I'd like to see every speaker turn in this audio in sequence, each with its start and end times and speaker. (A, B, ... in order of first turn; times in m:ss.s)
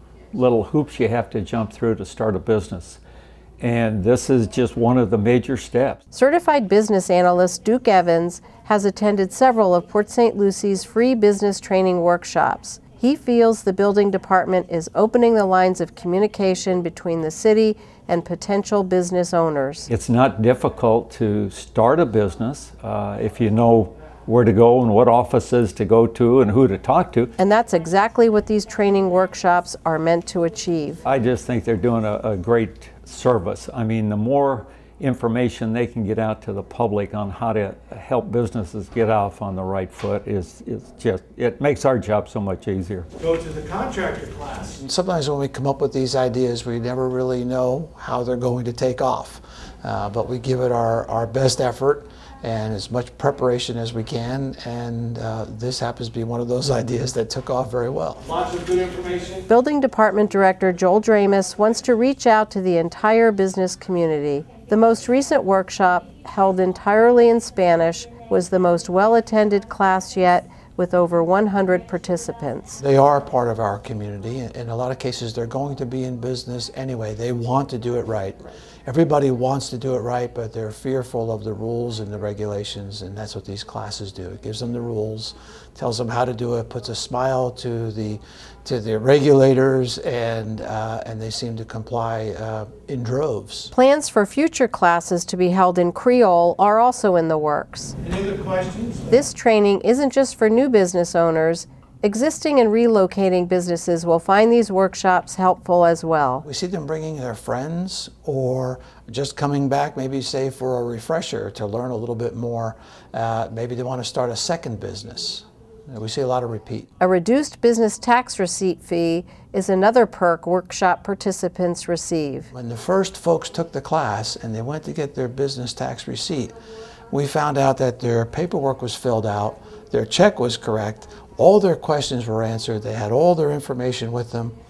0:00.3-0:03.0 A
0:03.6-0:06.0 A
0:06.1-0:19.9 B
0:19.9-0:27.3 A
0:27.4-0:31.0 B
0:31.0-0:43.1 A
0:43.2-0:44.8 C
0:44.8-0:58.3 D
0:58.3-0:59.4 C
0:59.5-1:12.8 B
1:12.8-1:33.7 D
1:33.7-1:38.0 B
1:38.0-1:39.2 C
1:39.1-1:46.4 B
1:46.4-1:56.9 D
1:57.0-2:02.5 B
2:02.5-2:06.5 D
2:07.1-2:14.5 D